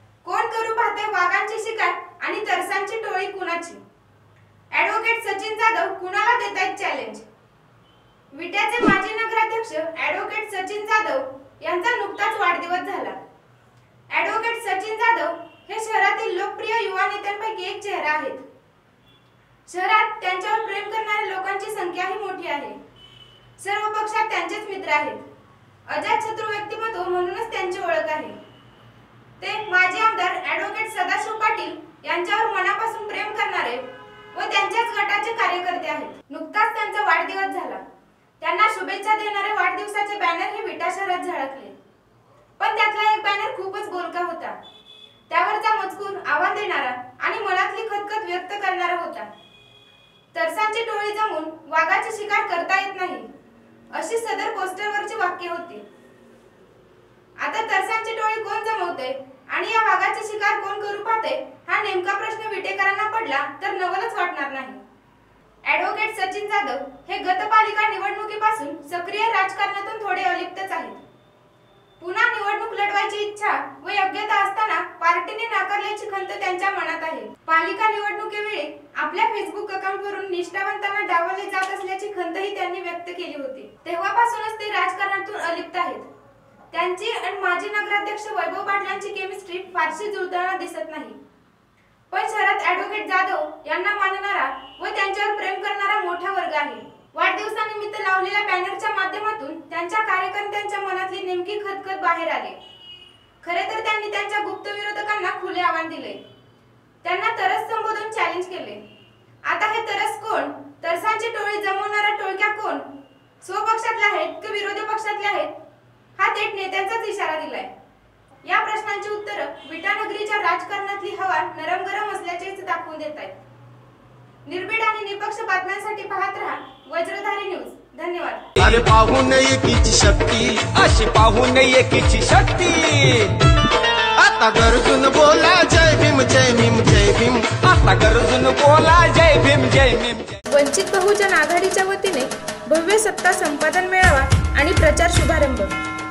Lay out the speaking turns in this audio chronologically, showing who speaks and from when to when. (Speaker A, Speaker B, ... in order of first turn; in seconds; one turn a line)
Speaker A: 0.2-3.8
Speaker A: 4.7-7.2
Speaker A: 8.3-13.2
Speaker A: 14.1-18.4
Speaker A: 19.7-22.8
Speaker A: 23.6-25.2
Speaker A: 25.9-28.4
Speaker A: 29.4-37.8
Speaker A: 38.4-41.8
Speaker A: 42.6-44.6
Speaker A: 45.3-49.3
Speaker A: 50.3-53.3
Speaker A: 53.9-55.9
Speaker A: 57.4-64.8
Speaker A: 65.6-71.0
Speaker A: 72.0-86.0
Speaker A: 86.7-91.2
Speaker A: 92.1-102.6
Speaker A: 103.4-106.2
Speaker A: 107.0-108.8
Speaker A: 109.4-112.9
Speaker A: 113.4-115.5
Speaker A: 116.2-117.7
Speaker A: 118.4-123.3
Speaker A: 124.5-128.5
Speaker B: 128.6-130.7
Speaker C: 130.7-133.4
Speaker B: 134.2-137.6
Speaker C: 137.6-140.4
Speaker A: 140.5-145.7